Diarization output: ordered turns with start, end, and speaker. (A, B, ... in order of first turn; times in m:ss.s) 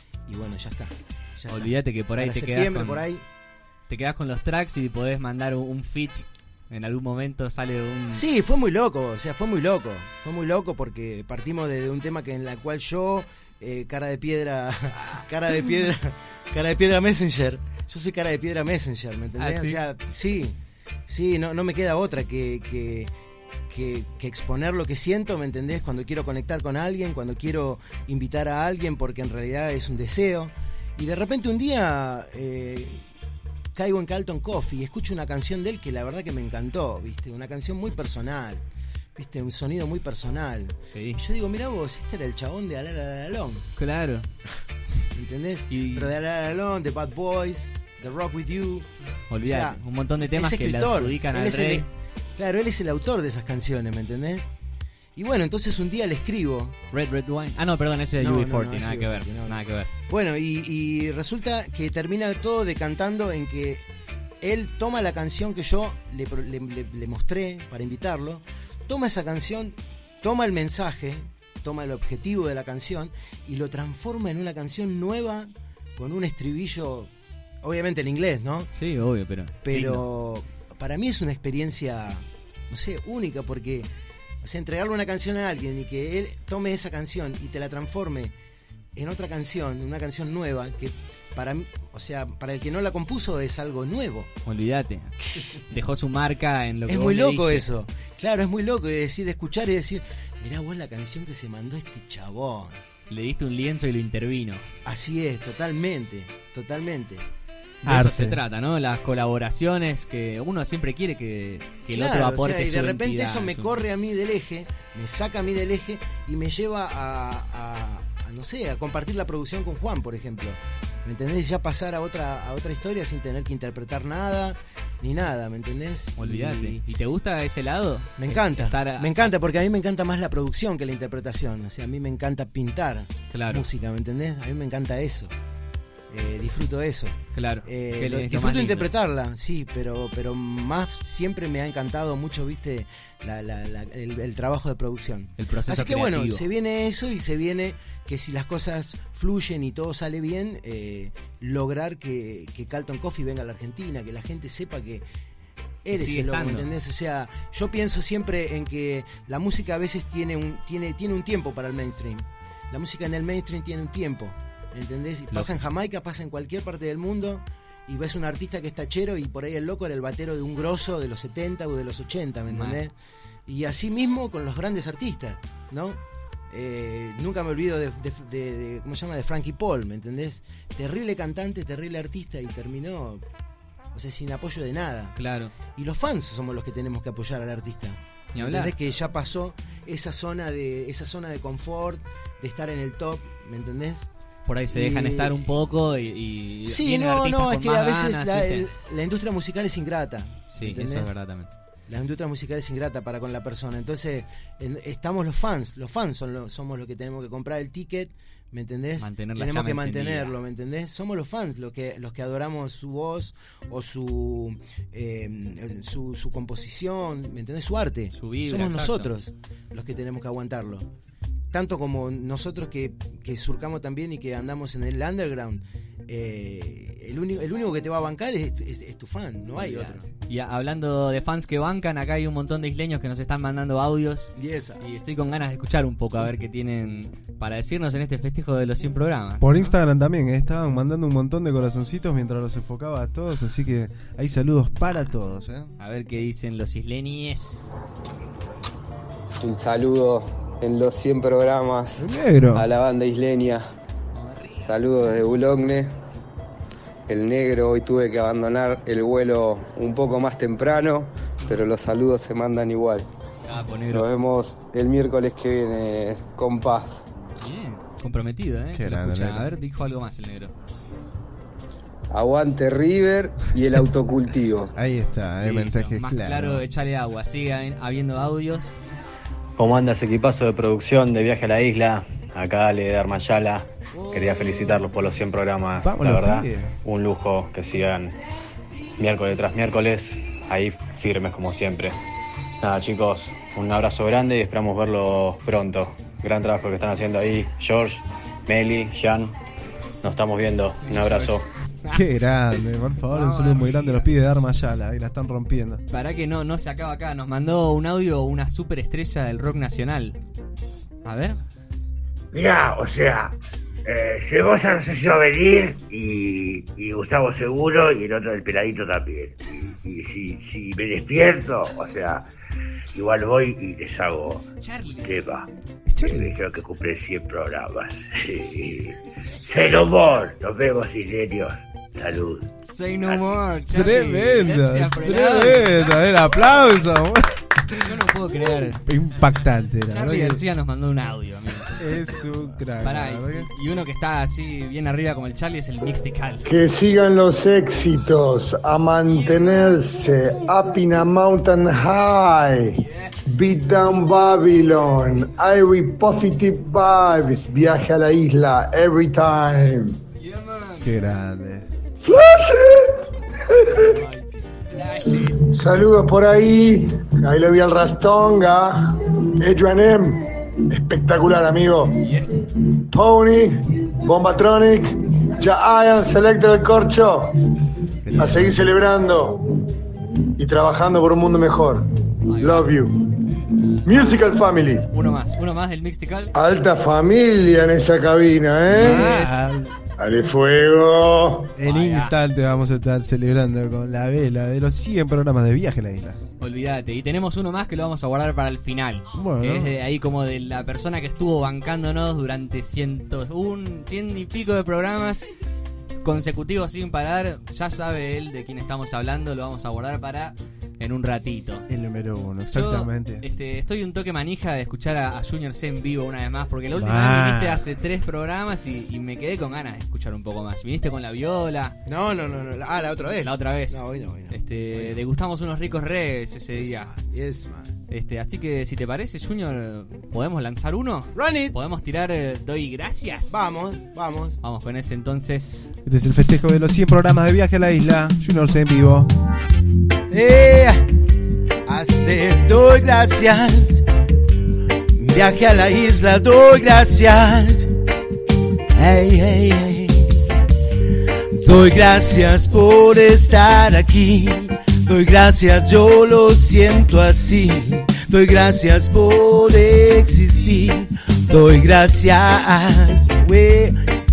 0:00.3-0:03.2 A
0:01.5-0:03.0 B
0:03.9-0:08.2 B
0:08.1-0:20.6 A
0:19.4-0:19.8 B
0:21.1-0:23.1 A
0:23.7-0:33.0 A
0:33.7-0:38.6 A
0:39.2-0:43.7 A
0:40.9-0:41.2 B
0:43.8-0:44.3 B
0:45.1-0:54.5 A
0:45.7-0:46.1 B
0:49.3-0:51.9 B
0:55.2-0:56.7 A
0:56.9-0:59.9 B
0:58.2-0:59.6 A
1:00.1-1:03.8 A
1:04.4-1:17.1 A
1:17.6-1:18.7 A
1:18.7-1:20.0 B
1:19.6-1:23.9 A
1:24.4-1:28.3 A
1:29.0-1:34.3 A
1:34.4-1:37.7 B
1:36.8-1:42.8 A
1:43.1-1:44.7 B
1:44.8-1:47.2 A
1:47.8-1:53.7 B
1:47.8-1:48.4 C
1:51.9-2:06.8 A
2:06.2-2:09.3 B
2:08.2-2:15.3 A
2:13.3-2:13.7 B
2:16.1-2:35.0 A
2:17.3-2:18.9 B
2:25.4-2:26.4 B
2:35.8-2:52.9 A
2:35.9-2:36.7 B
2:52.5-2:52.8 B
2:53.5-2:56.0 A
2:56.5-3:03.2 A
3:03.9-3:05.2 A
3:05.2-3:05.5 B
3:05.7-3:14.1 A
3:08.3-3:08.7 B
3:14.4-3:18.7 B
3:14.7-3:15.3 A
3:16.7-3:21.1 A
3:20.5-3:21.5 B
3:21.9-3:40.9 A
3:29.0-3:30.4 B
3:38.1-3:39.1 B
3:41.5-3:50.1 A
3:49.6-3:59.7 B
3:54.4-3:54.8 A
3:59.4-4:05.7 C
4:05.8-4:07.7 B
4:09.4-4:13.6 D
4:12.0-4:12.6 C
4:14.1-4:14.7 B
4:14.6-4:15.9 D
4:17.1-4:23.1 D
4:23.4-4:24.0 B
4:23.9-4:27.0 D
4:27.4-4:30.5 B
4:28.7-4:29.5 C
4:32.1-4:34.7 D
4:34.7-4:36.6 C
4:35.4-4:38.8 B
4:39.6-4:48.1 E
4:45.8-4:46.8 C
4:49.0-4:51.9 E
4:52.6-4:59.3 E
5:00.0-5:01.4 E
5:00.8-5:02.0 B
5:01.9-5:05.8 C
5:03.1-5:04.1 B
5:05.9-5:10.2 B
5:11.0-5:11.4 B
5:12.3-5:22.3 F
5:22.9-5:24.4 F
5:24.6-5:25.2 B
5:25.0-5:25.4 F
5:25.9-5:26.4 C
5:26.0-5:32.5 F
5:32.7-5:36.5 B
5:33.0-5:33.3 F
5:33.7-5:37.8 C
5:37.8-5:38.8 B
5:38.8-5:40.4 C
5:39.9-5:42.0 B
5:41.8-5:43.5 C
5:42.8-5:46.5 B
5:46.5-5:52.6 G
5:49.1-5:49.8 B
5:52.8-5:53.2 B
5:53.4-5:59.9 G
6:00.2-6:01.1 B
6:00.8-6:01.7 C
6:03.7-6:05.4 B
6:05.5-6:08.7 G
6:09.4-6:10.1 G
6:10.7-6:11.8 G
6:12.0-6:12.4 B
6:12.9-6:13.5 G
6:14.0-6:14.9 G
6:15.4-6:17.2 G
6:18.1-6:18.6 C
6:18.1-6:18.5 B
6:18.2-6:19.4 G
6:20.4-6:21.8 G
6:22.3-6:22.7 B
6:22.4-6:22.9 G
6:23.5-6:24.1 B
6:23.8-6:24.8 G
6:24.9-6:26.3 B
6:26.4-6:29.0 G
6:28.7-6:29.3 B
6:28.7-6:29.7 C
6:30.0-6:31.4 G
6:31.6-6:36.2 C
6:31.6-6:32.2 B
6:36.4-6:45.2 B
6:39.1-6:39.7 C
6:46.0-6:51.7 B
6:51.7-6:53.2 C
6:52.5-7:01.8 B
6:56.7-6:57.6 C
7:01.9-7:05.0 A
7:03.2-7:06.9 B
7:06.6-7:07.7 A
7:07.9-7:13.4 B
7:11.2-7:11.6 A
7:13.3-7:14.4 A
7:14.4-7:15.7 B
7:15.8-7:19.1 C
7:20.1-7:20.9 A
7:21.7-7:23.8 A
7:24.9-7:27.7 A
7:28.7-7:30.3 A
7:31.4-7:43.8 A